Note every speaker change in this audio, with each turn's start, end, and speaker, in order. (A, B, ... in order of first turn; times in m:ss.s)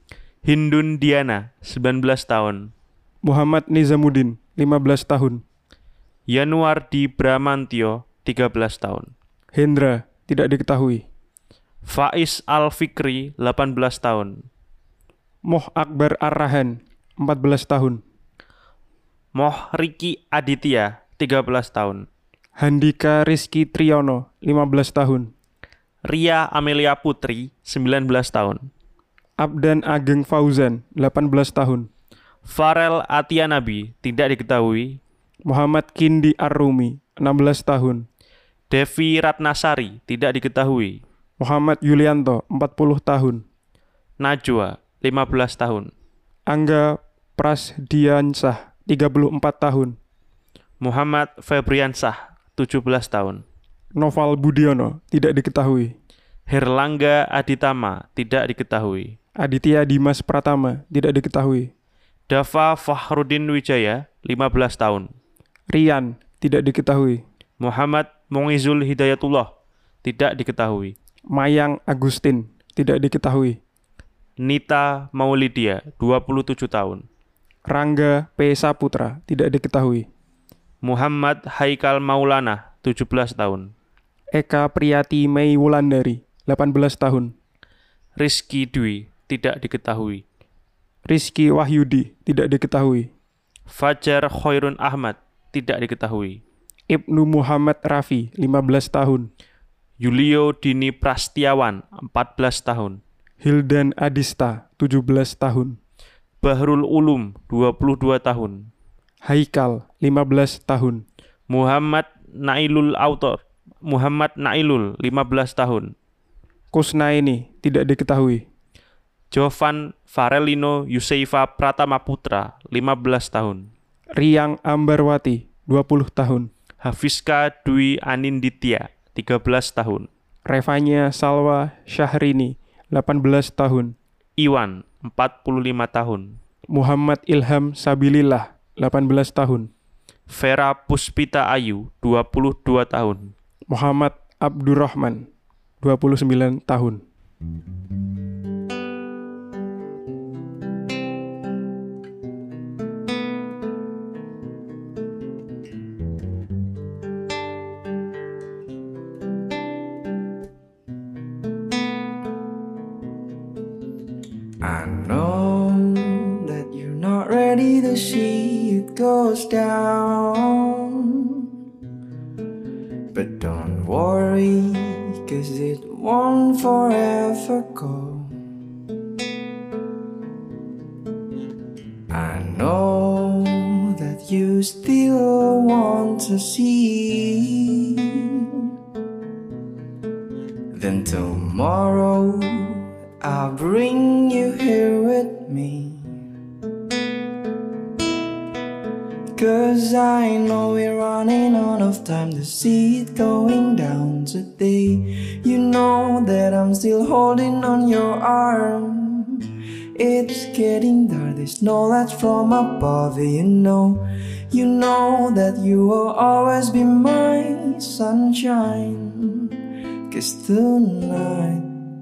0:00.4-0:02.7 A
0:03.2-0:05.4 B
0:06.3-0:09.1 A
0:09.5-0:11.0 B
0:11.8-0:14.3 A
0:15.5-0:18.0 B
0:19.3-0:22.0 A
0:22.6-0:25.3 B
0:26.1-0:28.6 A
0:29.4-0:31.9 B
0:32.4-0:35.0 A
0:35.5-0:38.0 B
0:38.7-0:41.0 A
0:41.4-0:43.4 B
0:44.2-0:45.9 A
0:46.5-0:49.9 B
0:50.8-0:53.4 A
0:54.0-0:55.9 B
0:56.5-0:59.1 A
0:59.4-1:01.7 B
1:02.3-1:05.1 A
1:05.7-1:07.2 B
1:07.6-1:09.5 A
1:10.0-1:10.9 A
1:11.3-1:13.6 B
1:14.4-1:17.0 A
1:17.7-1:20.0 B
1:20.8-1:23.7 A
1:24.3-1:27.3 B
1:28.2-1:30.2 A
1:31.1-1:33.1 B
1:33.7-1:36.4 A
1:36.9-1:39.3 B
1:40.0-1:43.0 A
1:43.4-1:45.8 B
1:46.4-1:48.7 A
1:49.2-1:51.0 B
1:51.5-1:55.9 A
1:56.7-1:58.4 B
1:59.3-2:03.7 A
2:04.2-2:06.5 B
2:06.8-2:10.1 A
2:10.5-2:13.9 B
2:14.4-2:16.3 A
2:16.7-2:19.7 B
2:20.3-2:23.3 A
2:23.7-2:25.2 B
2:25.8-2:27.0 B
2:44.6-2:51.5 C
2:53.1-2:58.4 C
3:02.1-3:08.7 C
3:10.7-3:16.2 C
3:19.4-3:39.6 C
3:40.1-3:41.7 C